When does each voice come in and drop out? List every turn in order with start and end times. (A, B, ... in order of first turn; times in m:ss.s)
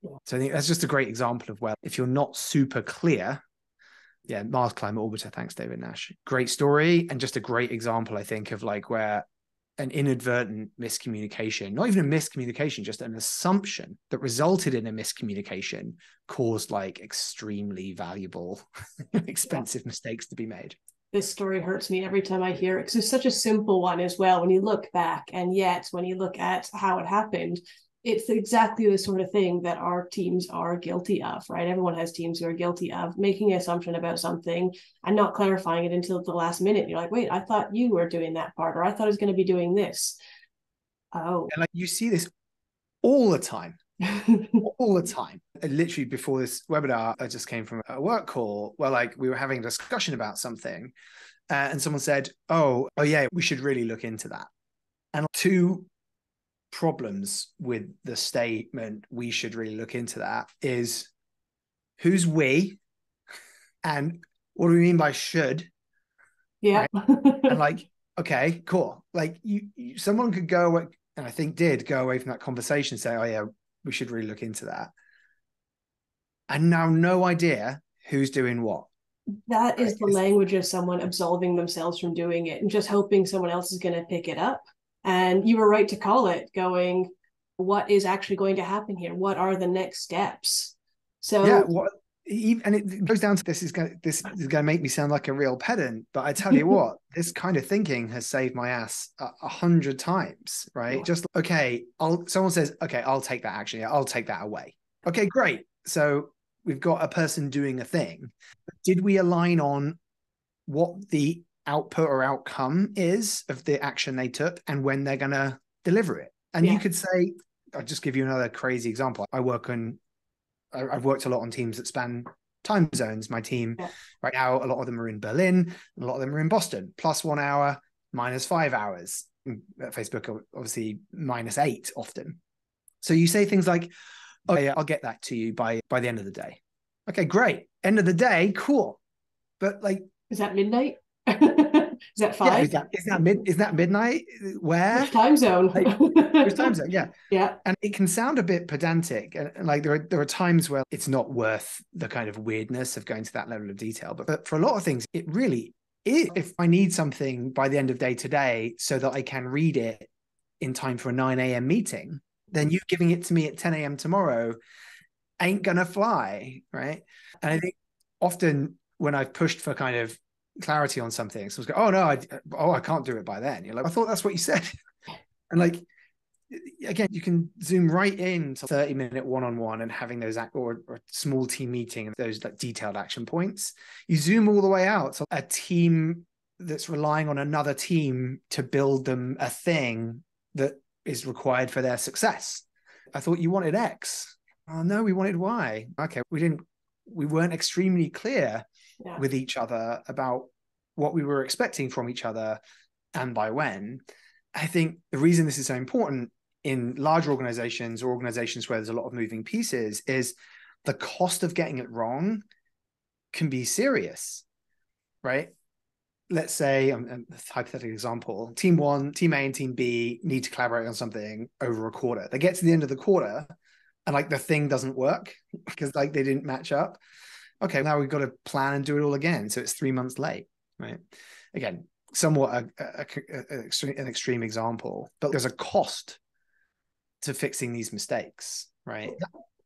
0:00.2-0:03.4 A
0:04.3-0:09.2 A
0:09.8-0:20.8 A
0:21.1-0:40.2 B
0:41.1-0:41.5 B
0:41.5-0:42.3 A
0:43.0-0:43.8 A
0:44.2-0:44.5 B
0:44.6-0:50.9 A
0:51.5-0:54.5 A
0:55.1-0:55.9 A
0:56.7-1:01.1 A
1:02.0-1:02.8 A
1:03.8-1:05.7 A
1:06.6-1:07.6 B
1:07.5-1:14.9 A
1:16.5-1:18.9 A
1:19.5-1:31.7 B
1:19.8-1:20.2 A
1:31.4-1:50.0 A
1:50.7-2:00.0 A
2:00.7-2:12.4 A
2:13.0-2:13.9 A
2:14.5-2:19.0 A
2:19.6-2:20.1 A
2:20.3-2:22.7 B
2:22.4-2:25.2 A
2:24.9-2:26.7 B
2:25.7-2:40.1 A
2:27.3-2:27.6 B
2:40.6-2:44.6 A
2:45.4-2:54.7 A
2:55.5-2:55.8 A
2:56.5-3:18.6 A
3:19.2-3:22.6 A
3:23.1-3:24.0 A
3:24.5-3:32.4 A
3:33.3-3:34.4 A
3:35.2-3:35.5 A
3:36.3-3:43.5 A
3:44.0-3:47.0 A
3:47.6-3:56.2 A
3:57.2-3:59.2 A